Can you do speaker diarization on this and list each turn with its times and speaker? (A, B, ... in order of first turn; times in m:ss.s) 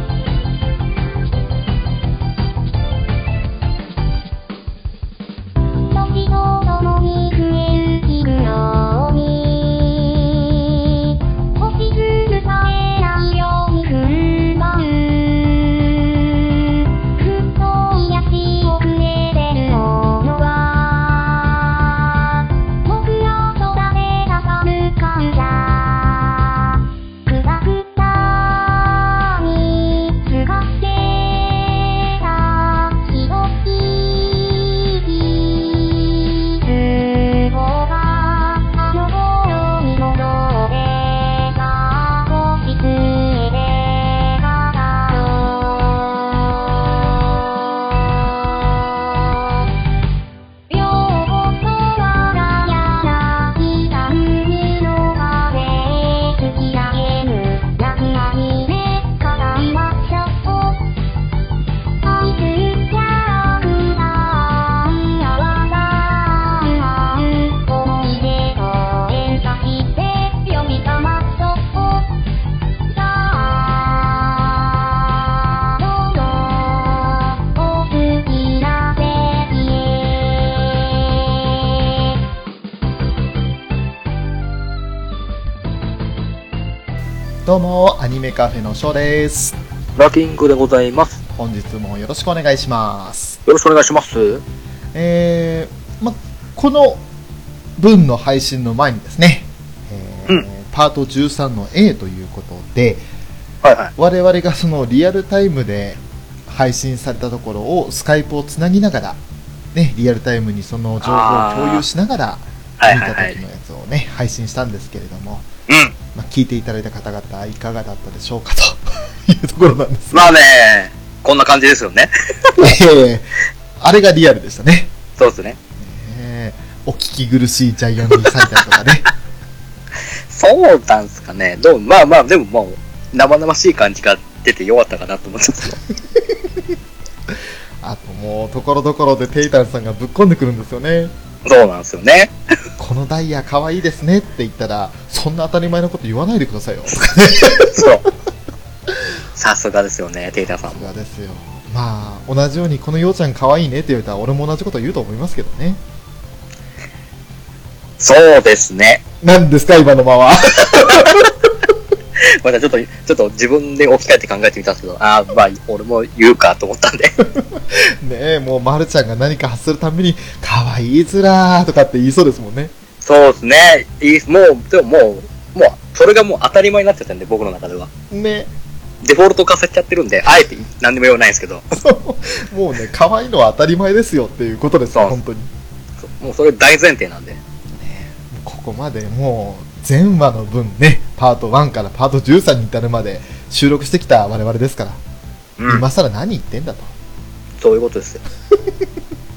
0:05.9-0:47.4 A
0:48.3-0:49.6 A
0:50.7-1:00.9 A
1:02.0-1:12.2 A
1:12.9-1:21.8 A
1:27.4-1:29.6 B
1:30.0-1:31.2 C
1:31.3-1:33.4 B
1:33.5-1:34.4 C
1:34.9-1:37.0 B
1:37.8-1:43.0 B
1:43.6-1:43.9 C
1:44.0-1:49.2 B
1:49.7-1:55.5 B
1:51.0-1:51.9 C
1:52.8-1:53.4 C
1:55.7-1:56.0 C
1:56.1-2:00.3 B
2:00.1-2:02.7 C
2:02.6-2:04.9 B
2:05.2-2:05.6 C
2:05.8-2:09.1 B
2:10.3-2:15.8 C
2:16.3-2:16.6 B
2:17.3-2:21.1 B
2:21.4-2:22.3 C
2:22.8-2:27.9 B
2:27.7-2:28.0 C
2:29.4-2:30.9 C
2:30.5-2:35.8 B
2:38.0-2:39.0 C
2:39.2-2:41.3 B
2:42.2-2:47.2 C
2:47.3-2:52.7 B
2:53.0-2:57.9 C
2:58.1-2:58.5 B
2:59.0-3:01.6 C
3:01.8-3:05.5 B
3:06.0-3:07.4 C
3:07.7-3:15.0 B
3:15.6-3:15.8 C
3:15.7-3:16.9 B
3:17.6-3:18.2 C